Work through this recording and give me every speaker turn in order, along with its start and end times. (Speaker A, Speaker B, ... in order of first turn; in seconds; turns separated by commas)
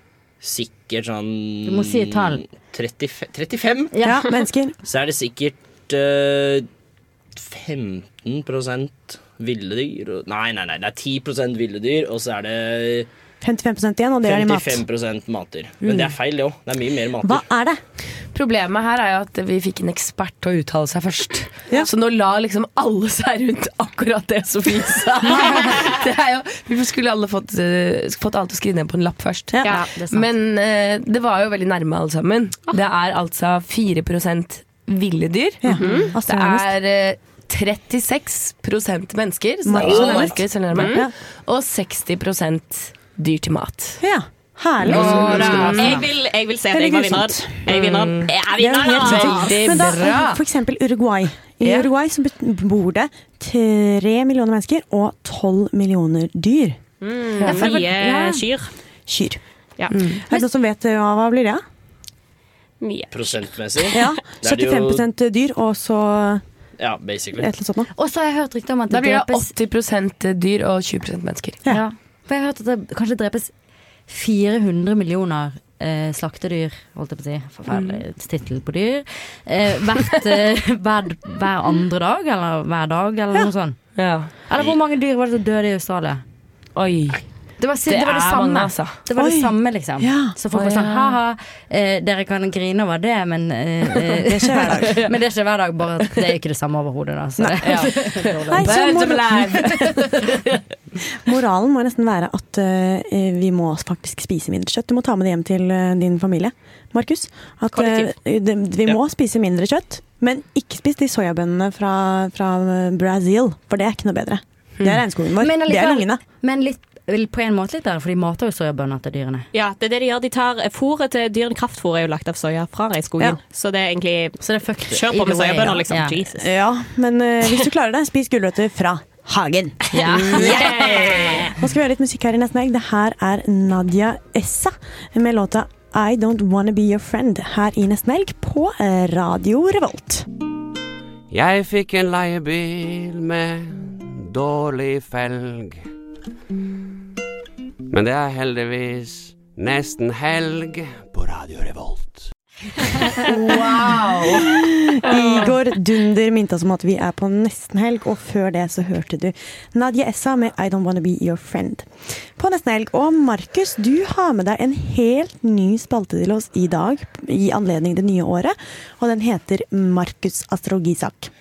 Speaker A: 0.4-3.9, Speaker B: 1.6-2.4, Speaker B: 3.9-4.2, Speaker C: 3.9-4.8, Speaker A: 4.8-6.7, Speaker A: 7.3-13.1, Speaker C: 13.4-14.8, Speaker A: 14.2-17.5, Speaker C: 15.8-16.1, Speaker C: 17.2-17.8, Speaker D: 18.2-44.0, Speaker C: 25.3-25.6, Speaker C: 29.5-29.8, Speaker B: 29.7-30.3, Speaker C: 35.6-36.7, Speaker E: 35.8-36.1, Speaker C: 39.6-41.1, Speaker A: 39.8-40.4, Speaker E: 40.7-41.0, Speaker C: 44.0-45.8, Speaker D: 44.9-46.0, Speaker A: 44.9-45.9, Speaker B: 45.2-46.0, Speaker E: 45.3-49.8, Speaker C: 46.7-47.6, Speaker D: 47.7-48.3, Speaker C: 48.5-58.1, Speaker D: 49.0-50.4, Speaker D: 51.6-51.9, Speaker E: 57.0-58.7, Speaker B: 57.4-58.4, Speaker C: 59.1-59.4, Speaker C: 60.2-61.6, Speaker E: 62.8-64.2, Speaker A: 63.1-65.0, Speaker C: 63.9-66.4, Speaker A: 66.8-67.5, Speaker C: 67.4-67.9, Speaker B: 67.9-69.5, Speaker D: 68.9-71.6, Speaker B: 71.7-73.5, Speaker B: 74.1-86.2, Speaker D: 77.7-78.0, Speaker D: 84.0-84.3, Speaker D: 86.7-89.0, Speaker B: 87.6-99.0, Speaker C: 89.2-90.3, Speaker D: 90.5-91.2, Speaker C: 94.2-95.0, Speaker C: 97.4-99.4, Speaker D: 97.6-100.6, Speaker C: 101.2-116.2, Speaker E: 107.7-108.1, Speaker B: 115.3-119.5, Speaker E: 119.5-126.5, Speaker B: 124.4-126.2, Speaker C: 126.4-129.8, Speaker D: 129.9-131.4, Speaker B: 129.9-131.1, Speaker E: 130.3-131.5, Speaker C: 131.6-140.2, Speaker F: 141.3-145.8, Speaker F: 147.9-152.2, Speaker C: 153.3-153.7, Speaker C: 154.3-171.3